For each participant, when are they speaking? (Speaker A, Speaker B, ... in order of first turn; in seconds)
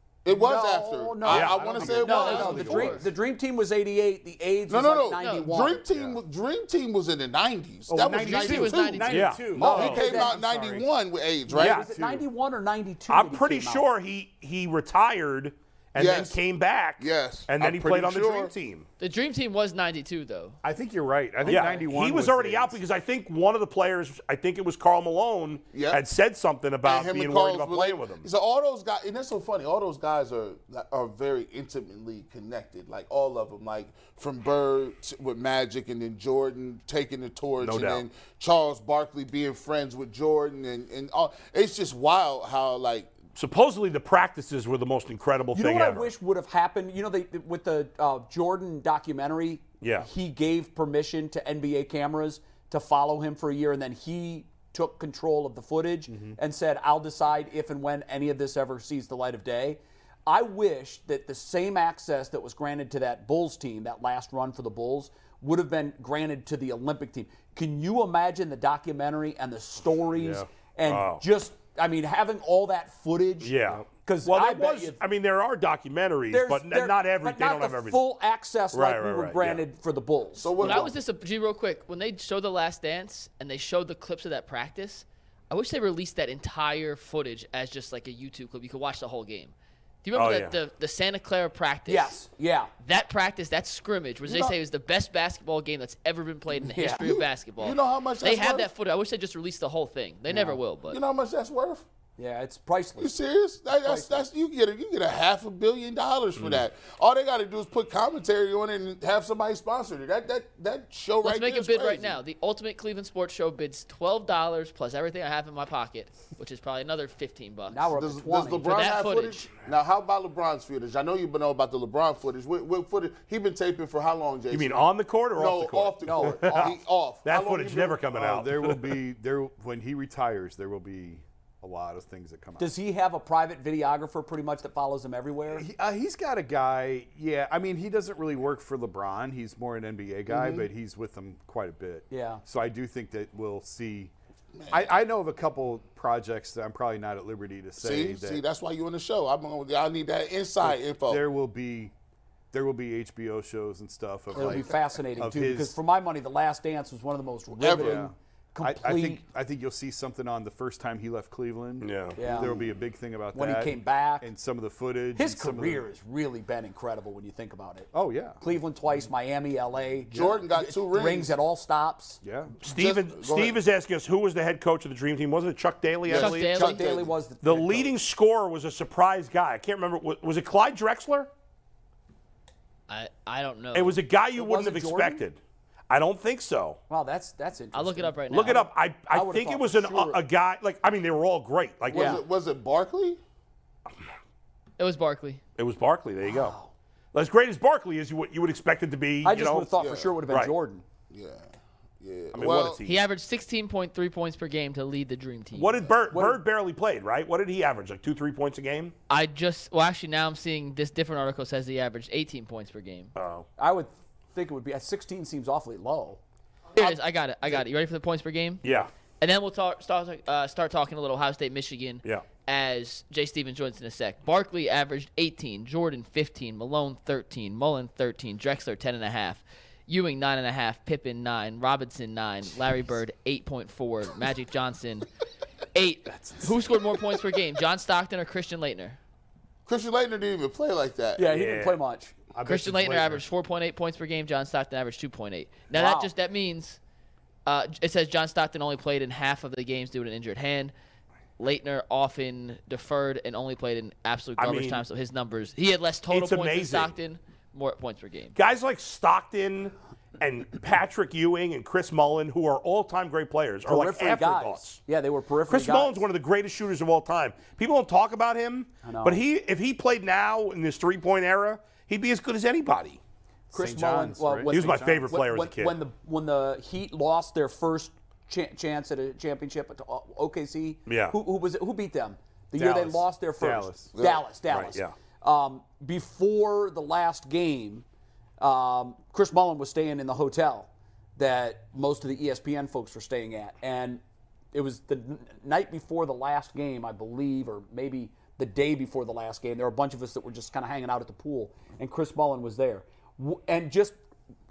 Speaker A: 0.2-3.0, 4.7-11.8, 16.0-16.4, 17.0-18.5, 25.7-26.0, 26.8-43.2, 80.4-81.0, 94.3-94.6, 97.0-98.7, 100.9-101.8, 103.0-112.2, 117.9-128.0, 140.3-140.7, 144.6-144.9, 147.8-151.2, 154.4-154.6, 157.6-158.1, 162.2-162.6, 170.1-171.3, 172.7-173.6, 176.1-177.1, 191.9-193.2, 199.8-200.2, 201.1-202.8, 239.7-241.3, 284.0-284.2
Speaker B: 0.3-5.8, 9.6-10.4, 11.5-13.9, 45.5-75.0, 76.3-80.9, 91.9-92.7, 96.7-97.2, 100.3-100.6, 102.2-103.1, 103.7-104.2, 117.7-119.0, 126.0-126.8, 132.6-135.7, 142.1-142.4, 154.3-159.2, 162.2-162.6, 163.3-164.3, 165.2-167.9, 168.4-172.2, 176.5-177.9, 184.3-185.2, 186.9-190.2, 191.9-192.2, 196.2-196.7, 199.2-200.8, 206.1-206.4, 213.6-216.2, 241.2-242.1, 245.7-246.1, 263.7-266.1, 268.8-269.2, 273.5-287.9, 288.4-294.0, 294.5-304.0
Speaker C: 1.3-1.6, 9.1-10.0, 13.1-18.9, 21.5-28.3, 37.6-38.0, 43.4-46.1, 49.8-50.1, 70.8-71.2, 73.4-78.0, 78.7-79.6, 90.2-90.5, 124.5-128.9, 161.8-162.2, 172.6-176.6, 177.4-181.3, 183.7-186.8, 188.3-192.2, 195.6-196.6, 197.1-199.7, 200.3-200.5, 202.3-203.0, 205.6-208.9, 213.2-213.5, 218.6-218.9, 241.3-241.8, 254.4-254.8, 256.1-256.9, 258.4-264.8, 265.5-273.0, 274.5-275.8, 280.9-281.2, 284.5-284.9
Speaker D: 1.4-3.1, 5.9-6.2, 7.9-10.8, 11.5-12.2, 20.6-22.8, 56.1-56.4, 70.2-70.5, 128.1-132.7, 135.5-144.1, 144.7-148.4, 150.6-151.9, 152.5-155.8, 157.8-165.8, 167.9-168.4, 172.2-172.5, 236.1-236.5, 242.3-243.2, 273.5-275.1, 282.6-283.9
Speaker E: 2.2-2.5, 5.2-5.5, 8.2-9.4, 19.0-20.6, 80.6-92.2, 92.8-101.0, 111.2-117.9, 118.7-119.5, 176.1-176.8, 182.9-184.0, 187.7-188.7, 194.8-195.4, 202.8-205.8, 209.1-213.1, 216.8-218.6, 219.2-235.1, 235.7-239.0, 242.5-246.8, 247.5-250.7, 251.4-258.4